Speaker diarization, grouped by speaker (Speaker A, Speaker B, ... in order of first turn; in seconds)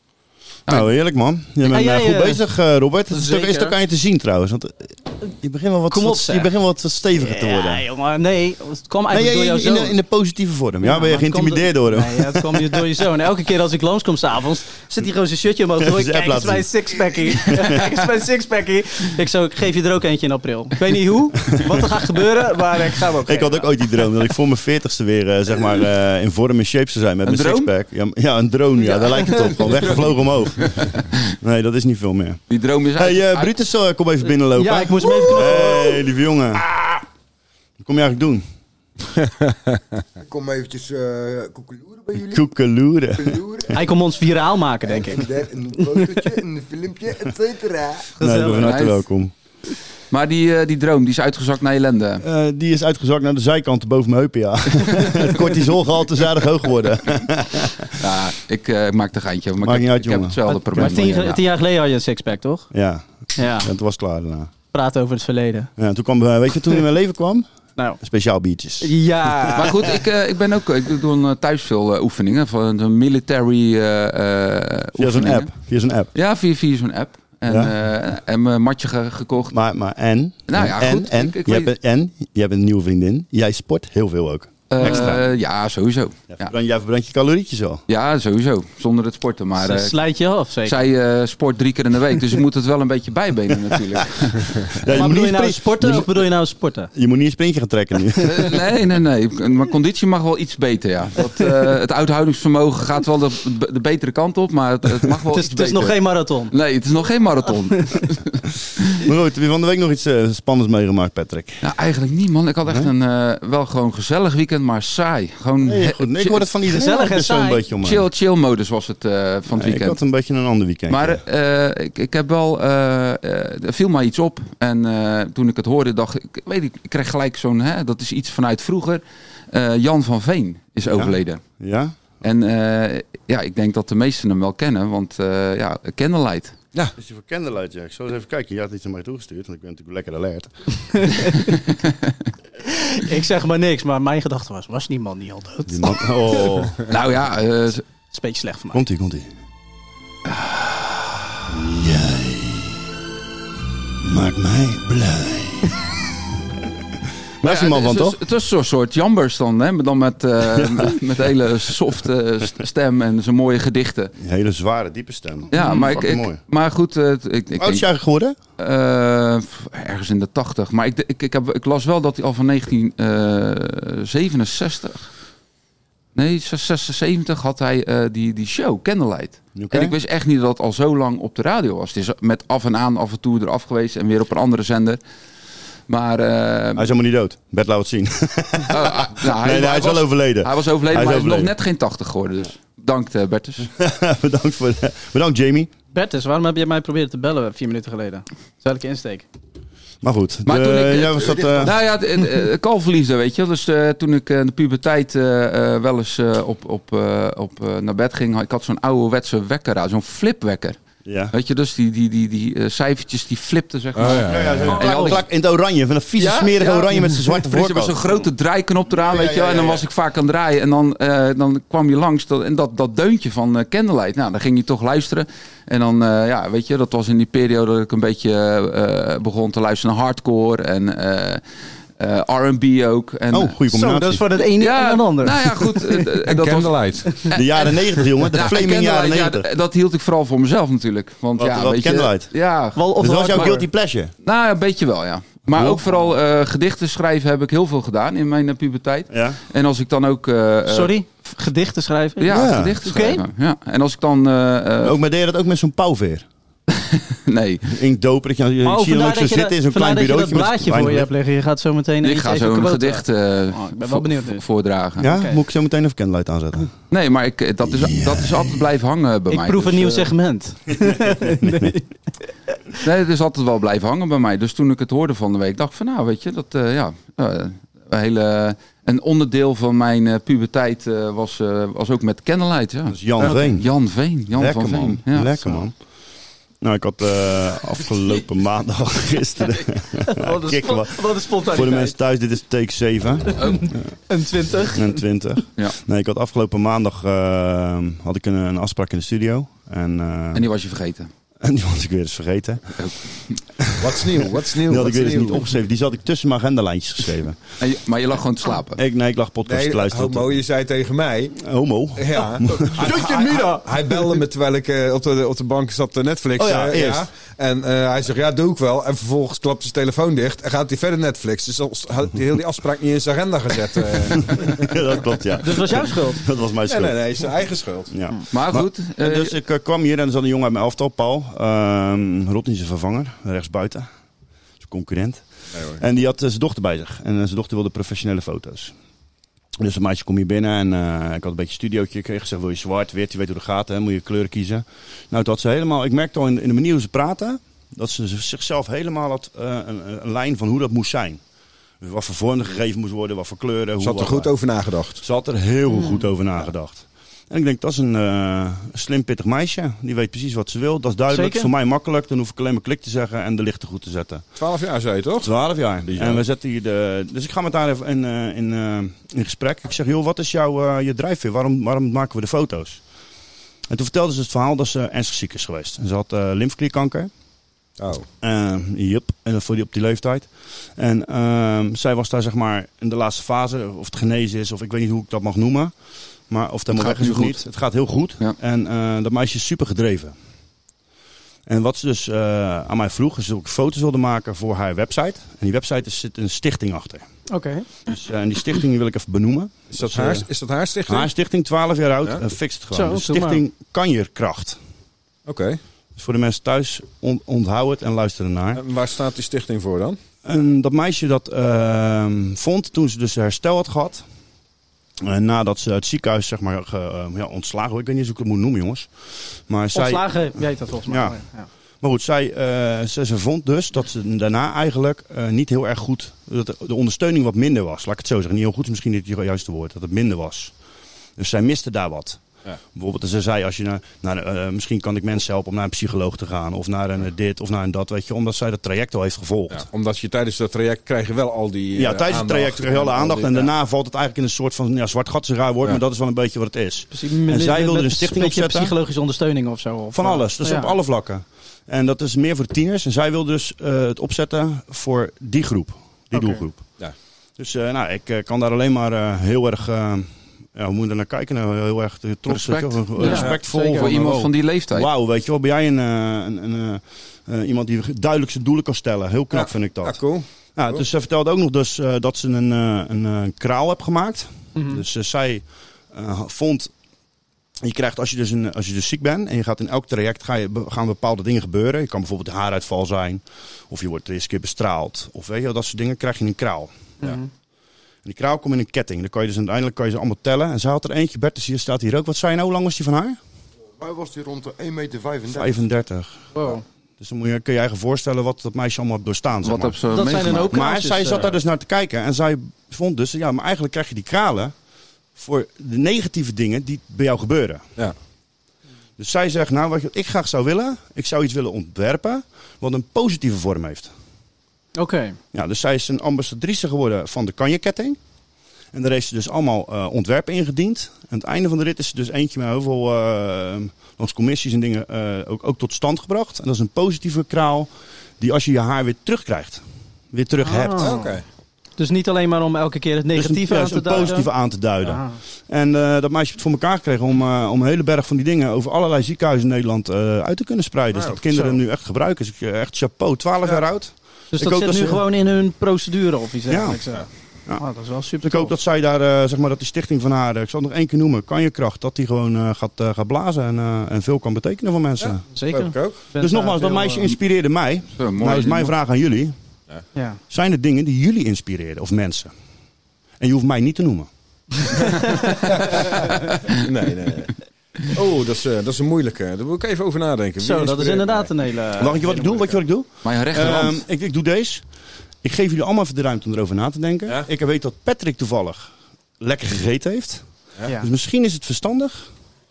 Speaker A: 0.7-7.8, 9.1-12.8, 15.8-17.8, 23.2-32.4, 33.0-36.6, 37.8-38.4, 42.3-43.4, 48.2-49.3, 52.2-57.9, 59.6-61.1, 62.7-64.5, 65.8-67.5, 68.0-69.5, 75.0-76.1, 77.5-77.7, 79.5-85.3, 86.3-87.8, 94.7-96.3, 96.9-98.6, 109.0-111.6, 115.6-118.0, 119.5-121.2, 130.9-131.9, 137.0-140.5, 145.7-146.8, 148.7-149.3, 151.5-152.7, 154.0-155.8, 157.4-158.2, 160.5-160.9, 164.2-166.4, 167.6-168.4, 179.6-179.9, 186.8-191.5, 193.8-195.7, 200.0-201.7, 211.0-211.3, 214.0-218.0, 219.0-219.8, 233.3-234.2, 237.3-239.4, 241.4-242.3, 243.0-244.1, 245.5-245.9, 249.1-249.4, 252.3-252.8, 254.8-256.3, 257.7-261.1, 265.0-266.7, 267.6-268.6, 271.4-271.7, 282.9-283.7, 284.3-285.7, 286.6-293.9, 294.7-300.4, 301.4-302.8, 303.6-307.4, 308.7-310.4, 311.3-313.1, 316.4-317.1, 324.2-327.3, 327.9-333.9, 334.6-335.2, 335.8-338.7, 339.6-351.2, 351.8-354.3, 355.0-364.2, 365.2-372.8, 373.7-377.1, 378.2-385.7, 386.3-390.1, 391.5-397.1, 397.9-400.3, 400.9-404.6, 406.0-408.6, 410.2-414.0, 415.0-418.9, 419.5-420.3, 420.9-421.2, 421.8-430.5, 431.2-432.2, 432.7-439.7, 441.7-448.7, 449.9-456.8, 457.4-470.0, 470.5-476.7, 477.6-486.7, 488.0-493.2, 495.3-496.2, 497.0-504.5, 505.1-507.6, 509.0-513.9, 515.3-518.0, 518.7-531.0, 533.1-545.0, 546.5-546.8, 548.2-555.2, 556.2-559.3, 560.3-562.3, 563.2-564.1, 571.8-574.6, 575.2-582.1
Speaker B: 1.6-2.4, 3.1-3.7, 5.9-6.5, 7.2-9.9, 10.8-24.1, 28.8-30.0, 34.5-36.0, 43.7-45.2, 48.2-48.7, 60.5-62.7, 63.4-63.7, 64.7-65.7, 68.8-69.8, 89.6-90.8, 94.9-96.9, 105.3-106.5, 116.7-117.7, 140.9-141.6, 142.6-146.4, 148.1-148.8, 195.9-199.3, 214.8-215.1, 233.7-236.0, 242.8-243.7, 250.7-252.3, 252.8-253.2, 258.6-264.4, 265.0-265.4, 269.3-271.9, 290.1-291.9, 293.6-295.0, 313.2-313.6, 325.4-326.2, 355.7-356.0, 361.1-361.5, 397.3-397.7, 402.7-403.4, 419.7-421.5, 446.9-450.7, 456.1-456.4, 463.0-463.9, 474.5-474.8, 487.0-487.3, 496.3-496.6, 499.9-501.4, 514.8-515.2, 530.4-531.1, 531.8-534.3, 534.8-535.2, 544.3-548.5, 555.3-557.1, 559.9-560.2, 564.9-565.4, 570.4-572.6
Speaker C: 27.2-27.7, 32.5-33.5, 48.6-49.0, 50.1-52.2, 58.0-61.4, 69.5-75.5, 76.1-79.6, 80.5-81.7, 84.7-86.5, 87.9-89.9, 90.6-94.8, 98.2-109.0, 111.6-116.5, 117.8-120.0, 120.9-131.4, 132.2-136.6, 146.9-147.8, 157.4-164.1, 165.5-167.8, 168.6-175.1, 176.1-185.0, 185.9-186.9, 188.7-193.7, 200.4-210.8, 211.3-215.2, 216.2-231.4, 232.0-233.6, 234.6-237.8, 238.3-243.6, 244.2-250.9, 252.2-255.0, 256.8-257.7, 262.0-265.1, 266.9-270.1, 272.8-285.6, 293.4-293.7, 300.3-301.1, 302.8-303.4, 307.6-308.8, 328.3-329.3, 386.7-387.4, 462.3-464.9, 499.4-500.5, 558.0-558.7, 573.0-573.8
Speaker D: 39.2-39.8, 213.9-214.8, 236.2-237.2, 303.8-305.5, 309.4-311.4, 311.9-324.8, 326.6-327.9, 335.5-335.8, 353.8-355.0, 364.4-365.3, 365.8-366.2, 377.8-378.1, 399.7-401.1, 405.2-405.6, 408.5-410.0, 439.5-443.5, 463.1-463.4, 469.3-470.8, 530.8-531.2, 540.9-541.2, 555.0-556.0, 565.5-571.3
Speaker E: 40.2-42.5, 43.1-43.8, 44.9-48.1, 201.2-201.7, 493.8-495.6